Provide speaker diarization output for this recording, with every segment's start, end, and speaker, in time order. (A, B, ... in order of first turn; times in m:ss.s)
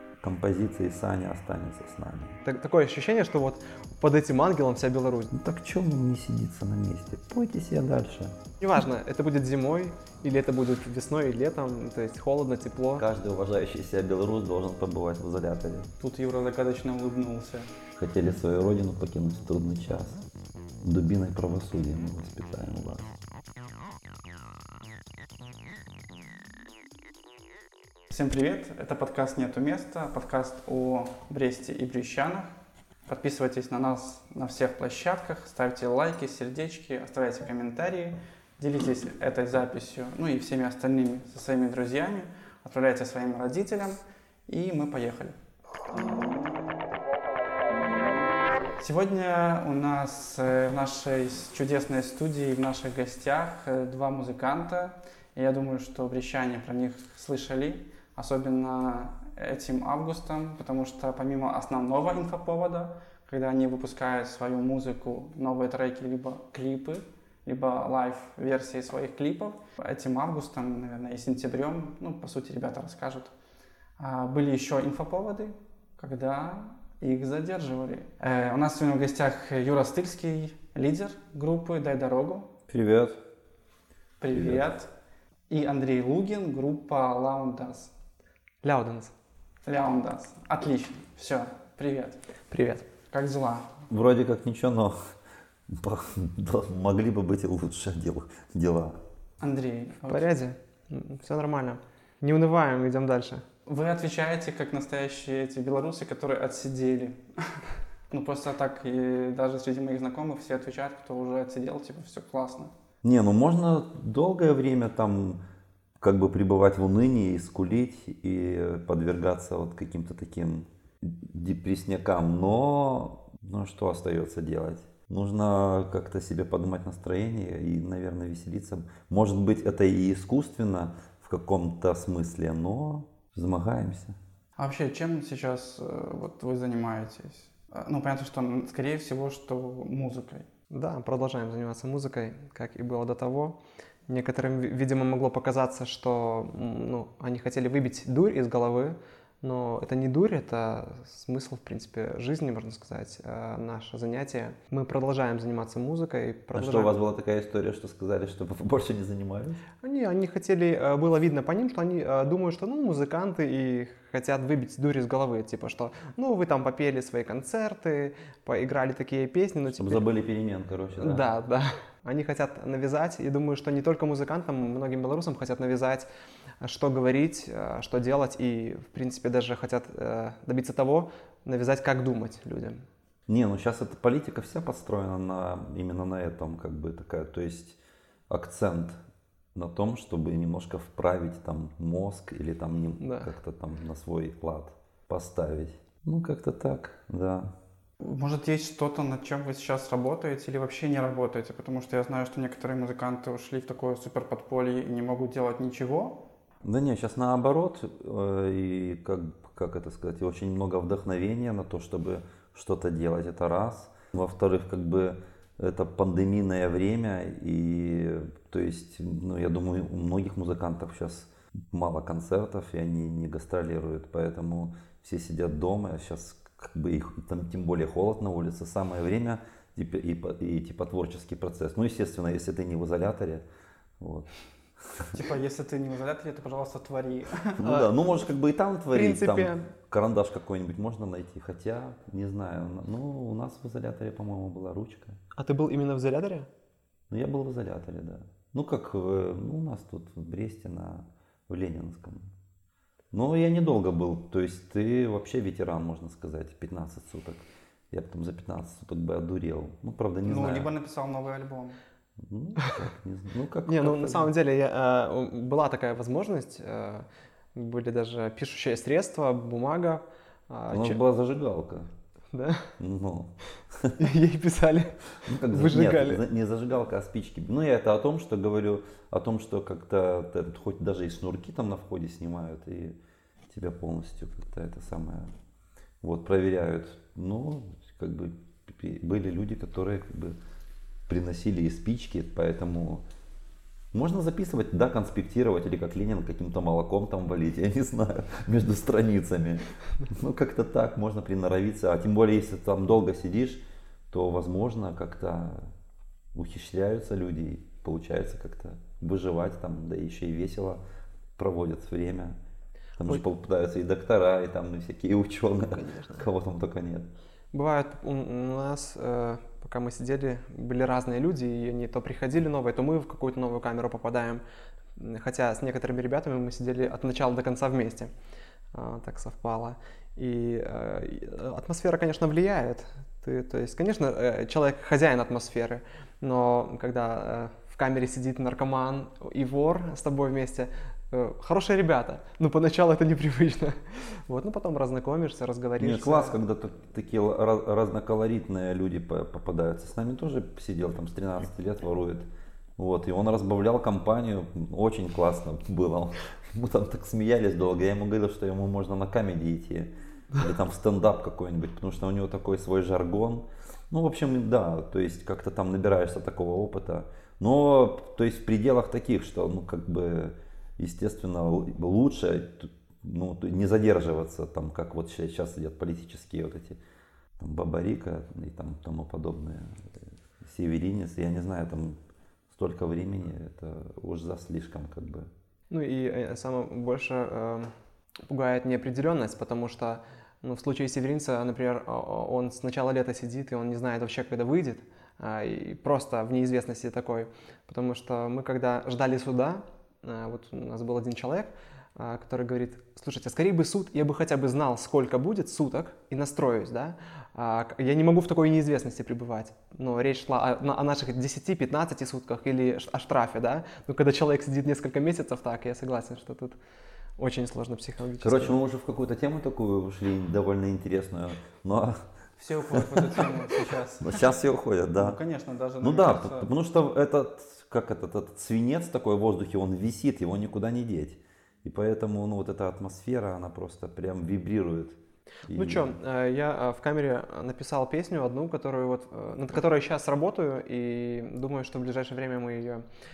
0:00.2-0:02.4 A
0:02.4-0:05.3 B
0:05.3-0:08.3 A
0:08.6-0:13.0 B
0:13.0-0:15.9 A
0:16.0-0:17.7 C
0:18.0-0:20.2 A
0:20.8-0:23.1 A
0:28.1-0:32.5 C
0:33.1-0:45.4 C
0:48.8-1:13.3 C
1:14.0-1:22.5 C
1:22.7-1:23.2 A
1:24.2-1:24.9 C
1:24.3-1:24.7 A
1:25.5-1:27.9 C
1:28.6-1:29.1 B
1:29.6-1:32.2 C
1:32.5-1:32.8 B
1:33.1-1:33.8 C
1:33.9-1:35.0 A
1:35.7-1:39.0 A
1:39.4-1:40.3 C
1:40.1-1:43.4 B
1:43.6-1:52.7 C
1:53.0-1:55.4 A
1:56.0-2:14.2 A
2:14.6-2:20.5 C
2:20.7-2:23.6 B
2:24.1-2:37.0 B
2:36.5-2:39.6 A
2:39.8-2:50.0 B
2:49.7-2:51.3 A
2:51.0-2:56.1 B
2:56.6-3:02.8 B
3:03.3-3:07.8 A
3:08.3-3:09.0 A
3:09.5-3:17.5 A
3:13.0-3:13.3 B
3:18.0-3:26.2 C
3:26.6-3:53.4 A
3:54.0-3:54.3 A
3:54.8-3:55.2 A
3:55.1-3:57.7 C
3:57.6-4:05.2 A
3:58.9-3:59.7 B
4:05.4-4:06.5 B
4:07.1-4:12.3 A
4:13.1-4:20.7 A
4:20.2-4:21.8 C
4:22.2-4:24.3 A
4:23.6-4:31.0 B
4:30.7-4:31.9 A
4:32.3-4:32.8 B
4:32.8-4:34.1 A
4:34.0-4:36.2 B
4:35.2-4:43.0 A
4:43.5-4:45.3 A
4:46.0-4:50.4 A
4:51.1-4:53.0 A
4:53.9-5:05.7 A
5:06.3-5:10.8 A
5:11.4-5:12.4 A
5:13.0-5:17.1 A
5:15.7-5:16.2 B
5:17.5-5:24.4 B
5:25.0-5:28.1 B
5:28.7-5:46.4 B
5:45.8-6:16.8 A
6:17.4-6:22.0 A
6:22.5-6:25.3 A
6:25.7-6:27.7 B
6:28.3-6:56.6 B
6:57.2-6:58.6 B
6:58.2-7:02.1 A
7:02.4-7:04.4 C
7:02.7-7:03.3 A
7:04.0-7:05.2 A
7:04.9-7:06.5 C
7:05.8-7:15.9 A
7:15.5-7:22.8 B